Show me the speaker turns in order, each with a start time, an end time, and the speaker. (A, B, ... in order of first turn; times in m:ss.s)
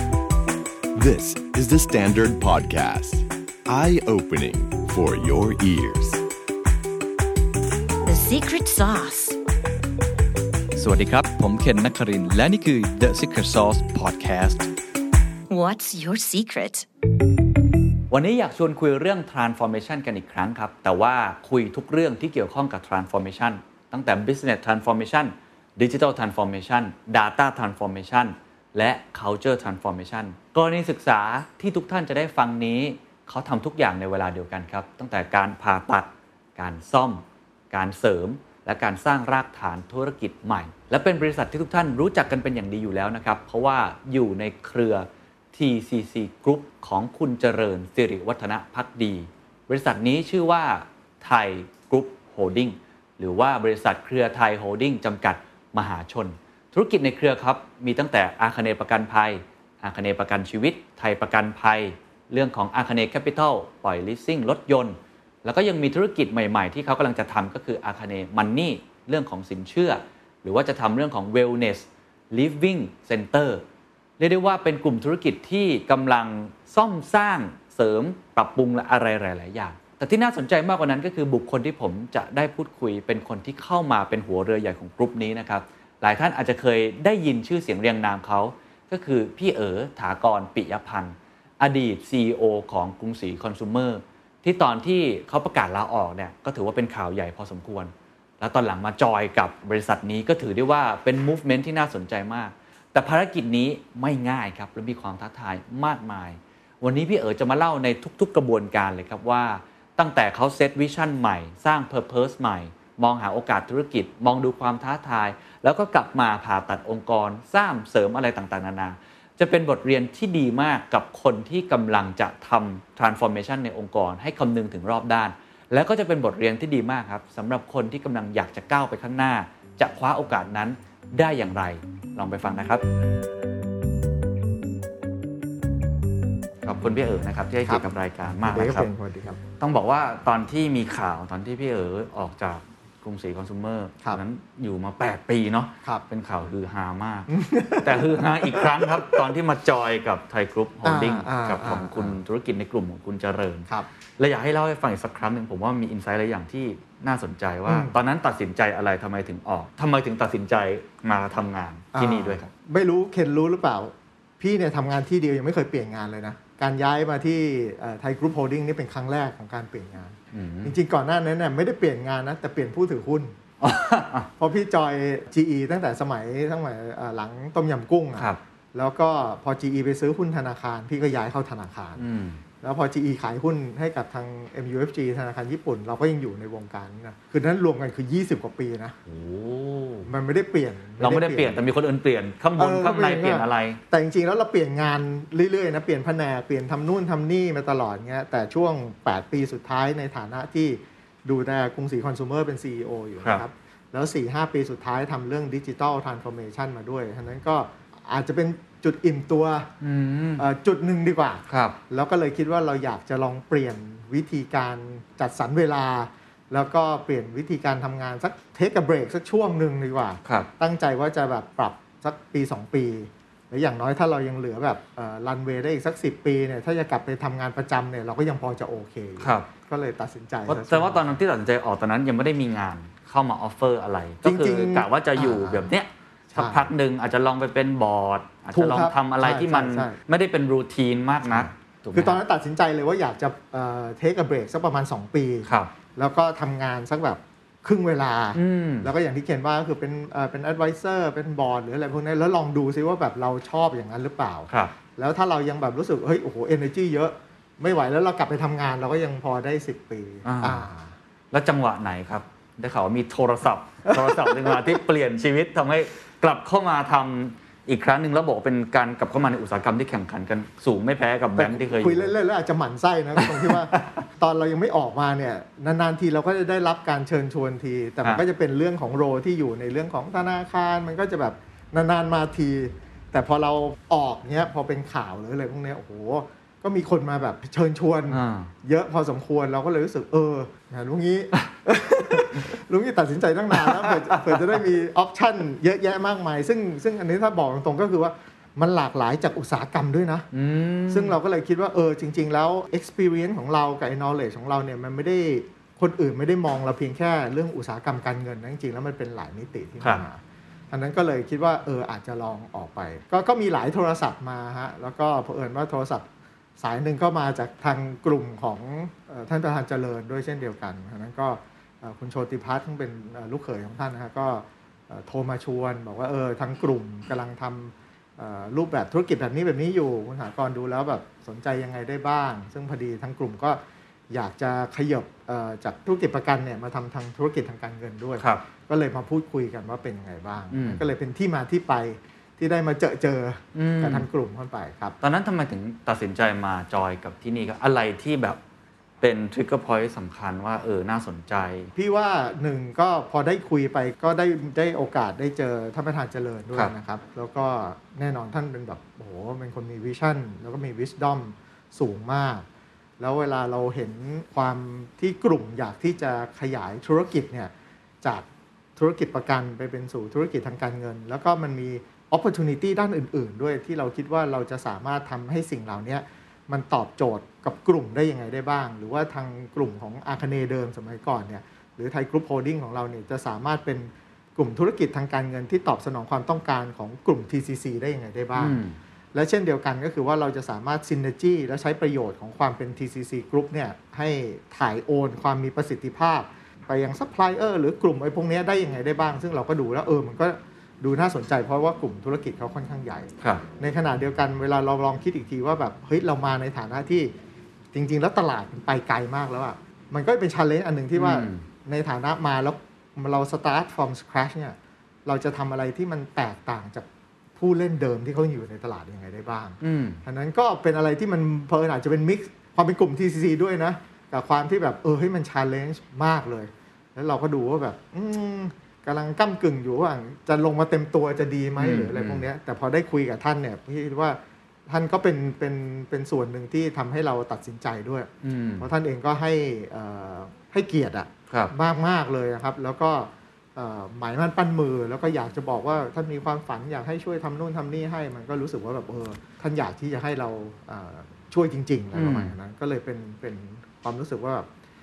0:01.0-0:06.2 A
0:08.0-0:09.4 B
0:10.8-0:14.7 C
0:15.5-0:16.9 B
0:18.1-1:13.6 D
1:14.2-2:12.8 D
2:16.6-2:18.9 D
2:18.4-2:19.4 E
2:19.6-2:27.3 D
2:27.3-2:29.2 E
2:27.8-2:33.7 D
2:30.8-2:32.2 E
2:34.2-2:42.5 D
2:37.7-2:38.0 E
2:41.9-2:53.3 E
2:50.3-2:50.8 D
2:53.6-2:54.3 D
2:54.4-3:02.0 E
3:02.0-3:02.4 D
3:02.6-3:09.0 E
3:09.1-3:10.1 D
3:10.0-3:11.6 E
3:11.0-3:13.8 D
3:12.6-3:29.7 E
3:29.8-3:30.4 D
3:30.4-3:51.1 E
3:31.5-3:31.8 D
3:49.2-3:49.5 D
3:50.5-4:02.2 D
3:54.2-3:55.7 E
3:56.3-3:56.7 E
3:58.5-4:00.0 E
4:01.3-4:20.9 E
4:05.5-4:05.7 D
4:08.4-4:08.9 D
4:20.2-4:20.6 D
4:21.3-4:32.1 D
4:23.8-4:24.6 E
4:31.4-5:00.3 E
4:33.2-4:33.8 D
4:48.1-4:48.5 D
4:53.5-4:54.6 D
5:00.3-5:01.2 D
5:00.9-5:10.2 E
5:10.7-5:16.1 E
5:16.6-5:45.0 E
5:40.5-5:40.8 D
5:43.6-5:44.1 D
5:45.0-5:48.4 D
5:49.0-5:51.7 D
5:51.8-6:02.5 E
6:03.0-6:07.5 E
6:08.8-6:28.6 E
6:28.4-6:28.8 D
6:29.2-6:47.1 E
6:47.7-6:56.9 E
6:51.0-6:51.4 D
6:57.4-7:34.5 E
6:59.6-7:00.0 D
7:11.6-7:12.2 D
7:18.2-7:18.6 D
7:31.9-7:32.3 D